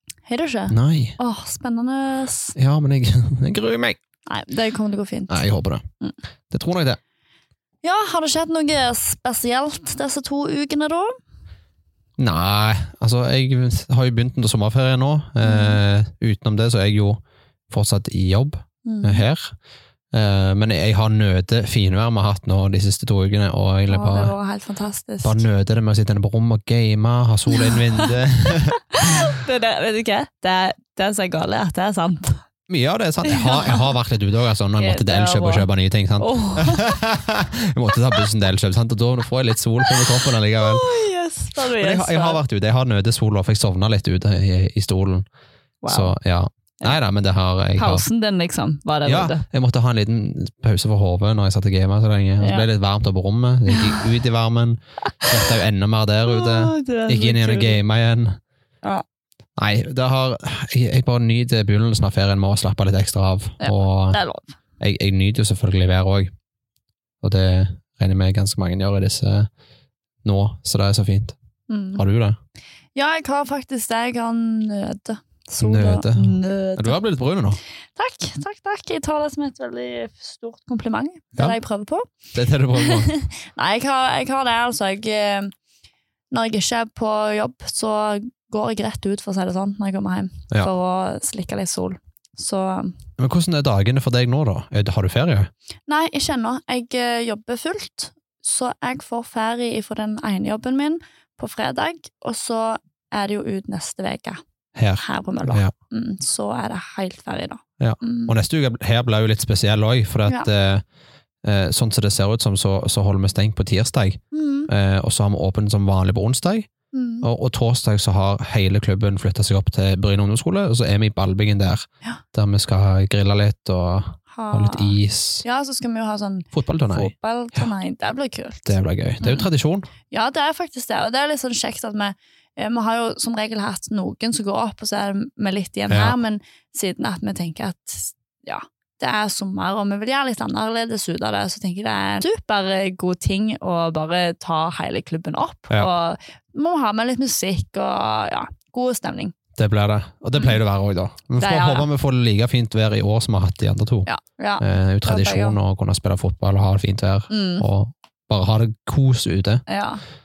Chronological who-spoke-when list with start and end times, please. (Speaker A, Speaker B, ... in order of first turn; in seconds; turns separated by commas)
Speaker A: 0.3-2.5, Speaker B: 0.7-1.1, Speaker B: 2.5-4.0, Speaker A: 4.3-5.5, Speaker B: 5.3-5.8, Speaker B: 6.5-7.0, Speaker A: 7.8-11.2, Speaker B: 12.2-19.5, Speaker A: 15.4-15.8, Speaker A: 18.8-19.2, Speaker B: 20.1-24.3, Speaker A: 23.9-25.4, Speaker B: 25.2-28.8, Speaker A: 27.5-28.1, Speaker A: 28.9-32.4, Speaker B: 32.7-40.9, Speaker A: 33.2-33.9, Speaker A: 34.8-35.7, Speaker A: 36.2-37.0, Speaker A: 40.6-42.4, Speaker B: 41.6-45.2, Speaker A: 45.8-46.1, Speaker B: 45.9-48.0, Speaker A: 47.8-49.4, Speaker B: 49.0-58.4, Speaker A: 52.4-52.6, Speaker A: 53.7-54.0, Speaker A: 55.1-55.5, Speaker A: 56.2-57.8, Speaker B: 59.6-64.2, Speaker A: 63.6-64.5, Speaker B: 64.8-66.3, Speaker B: 67.2-69.5, Speaker B: 70.2-71.3, Speaker A: 71.7-72.0, Speaker B: 72.0-72.4, Speaker A: 72.9-77.0, Speaker B: 75.6-77.6, Speaker A: 78.0-82.1, Speaker B: 82.3-83.1, Speaker A: 82.7-85.5, Speaker A: 86.3-92.9, Speaker B: 93.2-95.5, Speaker A: 95.9-104.4, Speaker B: 104.8-105.7, Speaker A: 105.0-108.3, Speaker B: 107.8-110.8, Speaker B: 111.4-116.7, Speaker A: 114.3-114.7, Speaker A: 116.9-117.3, Speaker B: 117.2-125.4, Speaker A: 124.3-128.7, Speaker B: 126.5-127.7, Speaker B: 128.6-129.9, Speaker A: 129.2-129.5, Speaker A: 130.1-149.3, Speaker B: 135.9-136.2, Speaker B: 149.6-154.1, Speaker A: 151.4-151.9, Speaker A: 154.1-155.6, Speaker B: 154.6-159.6, Speaker A: 157.3-157.6, Speaker A: 159.7-160.0